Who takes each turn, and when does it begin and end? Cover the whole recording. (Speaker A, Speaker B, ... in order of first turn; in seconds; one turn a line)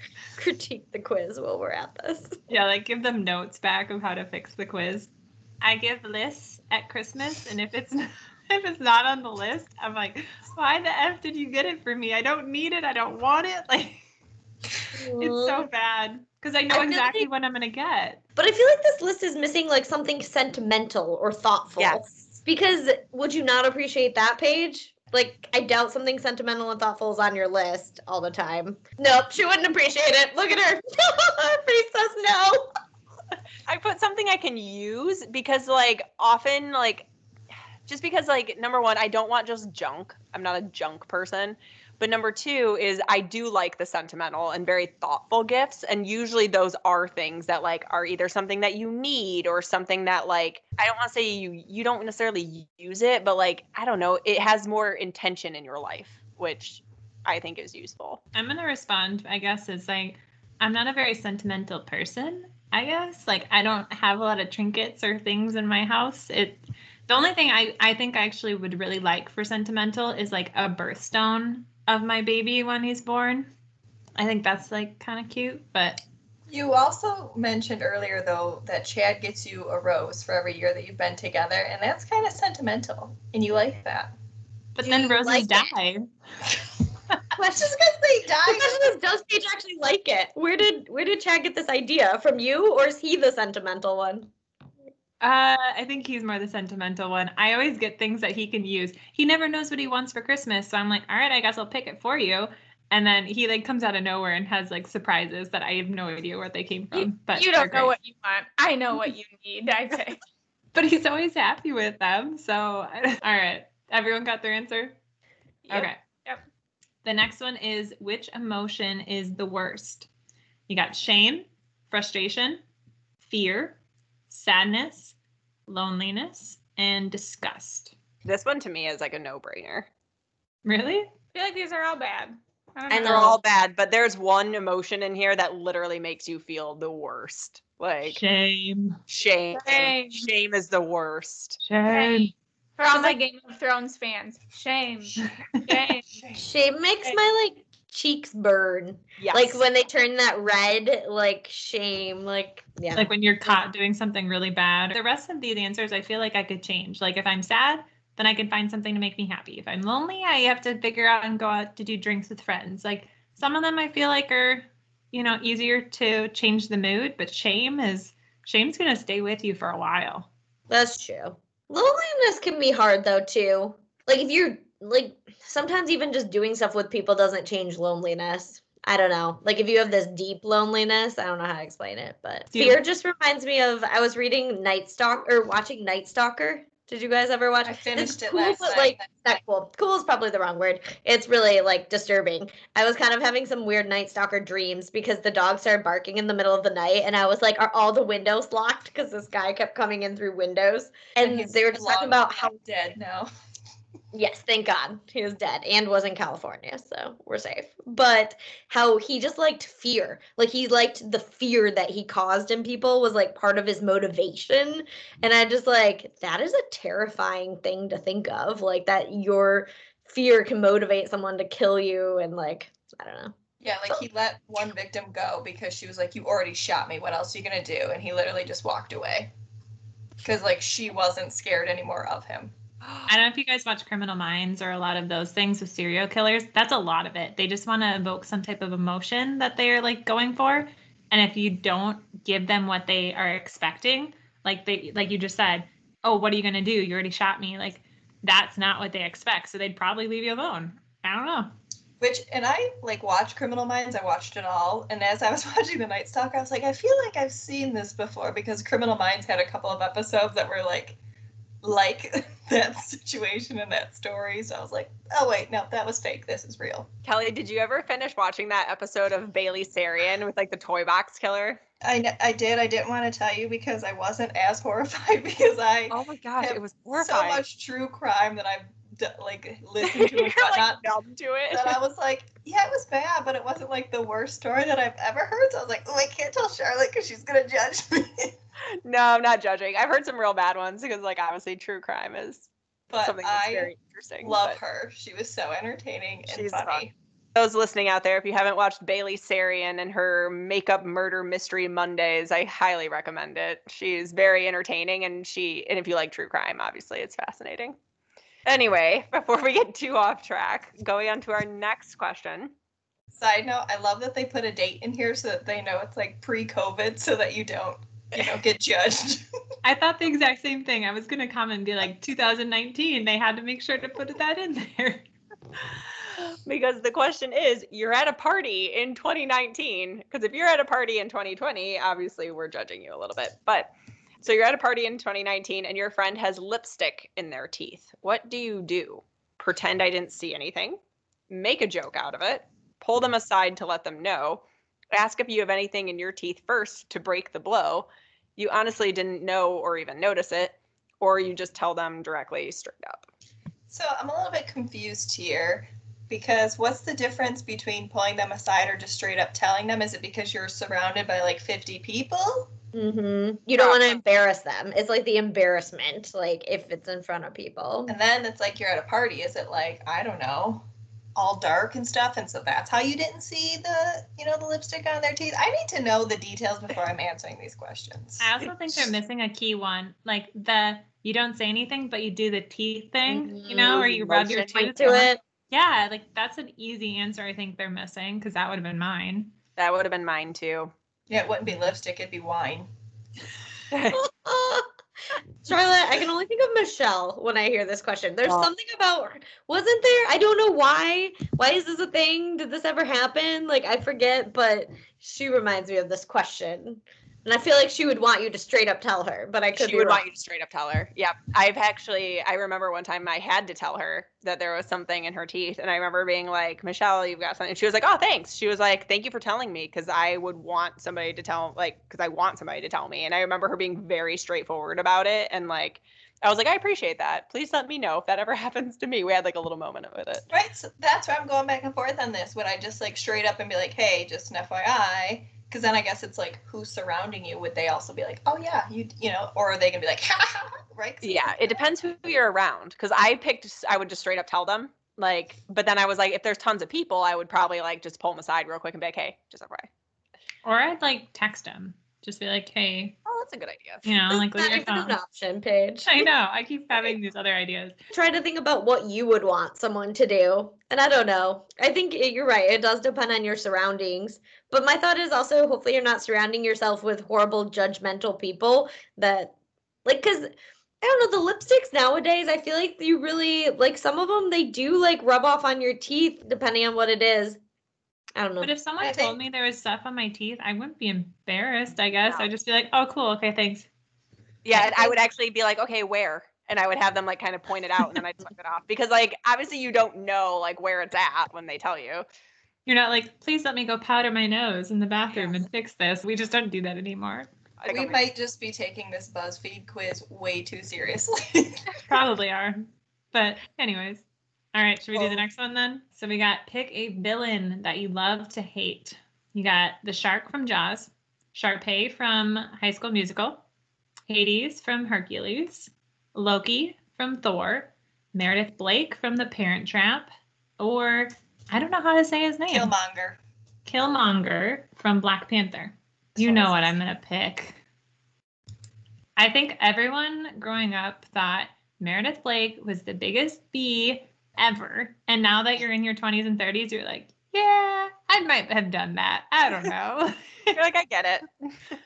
Speaker A: 0.4-2.4
Speaker B: 2.5-14.0
Speaker A: 14.9-15.7
Speaker B: 15.2-18.2
Speaker A: 16.7-17.3
Speaker A: 18.4-32.7
Speaker C: 21.8-22.1
Speaker C: 33.7-37.1
Speaker C: 37.9-58.2
Speaker B: 58.3-73.5
Speaker B: 74.2-76.0
Speaker D: 76.5-84.1
Speaker B: 84.8-86.1
Speaker A: 84.8-85.8
Speaker D: 87.4-88.9
Speaker A: 88.5-94.3
Speaker B: 95.2-107.9
Speaker E: 106.9-110.2
Speaker B: 110.7-115.0
Speaker E: 115.6-116.4
Speaker B: 115.7-116.0
Speaker B: 117.0-120.1
Speaker B: 120.7-122.6
Speaker B: 123.2-125.2
Speaker B: 125.7-128.0
Speaker C: 128.2-129.9
Speaker B: 130.6-131.1
Speaker E: 131.3-133.3
Speaker A: 132.9-133.4
Speaker C: 132.9-138.2
Speaker B: 138.1-139.0
Speaker C: 139.1-141.6
Speaker E: 139.5-140.3
Speaker B: 141.6-142.3
Speaker E: 141.9-146.0
Speaker A: 146.4-153.6
Speaker C: 149.2-149.6
Speaker B: 152.9-170.3
Speaker A: 170.7-202.6
Speaker B: 182.5-182.8
Speaker D: 187.6-189.4
Speaker D: 201.2-203.3
Speaker A: 204.1-223.3
Speaker D: 223.6-229.3
Speaker D: 230.2-232.5
Speaker C: 232.8-233.1
Speaker B: 233.1-251.5
Speaker D: 252.0-261.0
Speaker D: 261.6-266.9
Speaker C: 267.0-271.6
Speaker D: 271.8-280.8
Speaker C: 275.9-277.4
Speaker C: 279.8-281.8
Speaker D: 281.5-288.3
Speaker C: 288.9-292.5
Speaker D: 292.9-296.9
Speaker C: 293.0-294.6
Speaker C: 296.3-296.8
Speaker C: 297.4-307.8
Speaker C: 308.5-312.5
Speaker D: 313.1-319.2
Speaker B: 319.6-325.1
Speaker C: 326.5-353.1
Speaker D: 353.7-362.5
Speaker A: 362.7-367.9
Speaker C: 363.6-364.0
Speaker D: 367.9-370.6
Speaker D: 371.1-378.3
Speaker B: 378.2-389.3
Speaker A: 383.1-385.2
Speaker C: 389.6-390.7
Speaker D: 391.1-392.7
Speaker C: 393.7-394.0
Speaker A: 393.9-394.6
Speaker A: 395.4-410.0
Speaker C: 409.5-430.2
Speaker D: 430.3-441.7
Speaker C: 441.0-449.7
Speaker B: 450.4-453.0
Speaker C: 453.0-453.8
Speaker B: 453.8-455.0
Speaker A: 454.1-456.1
Speaker B: 455.9-457.8
Speaker A: 457.9-477.4
Speaker A: 478.1-478.5
Speaker B: 478.4-483.7
Speaker D: 478.8-479.2
Speaker C: 484.4-492.0
Speaker A: 484.5-484.9
Speaker B: 492.6-497.3
Speaker C: 497.6-498.0
Speaker D: 497.7-501.6
Speaker B: 501.9-513.4
Speaker B: 514.1-522.7
Speaker D: 522.5-523.2
Speaker B: 523.6-527.6
Speaker B: 529.2-540.6
Speaker C: 540.5-541.3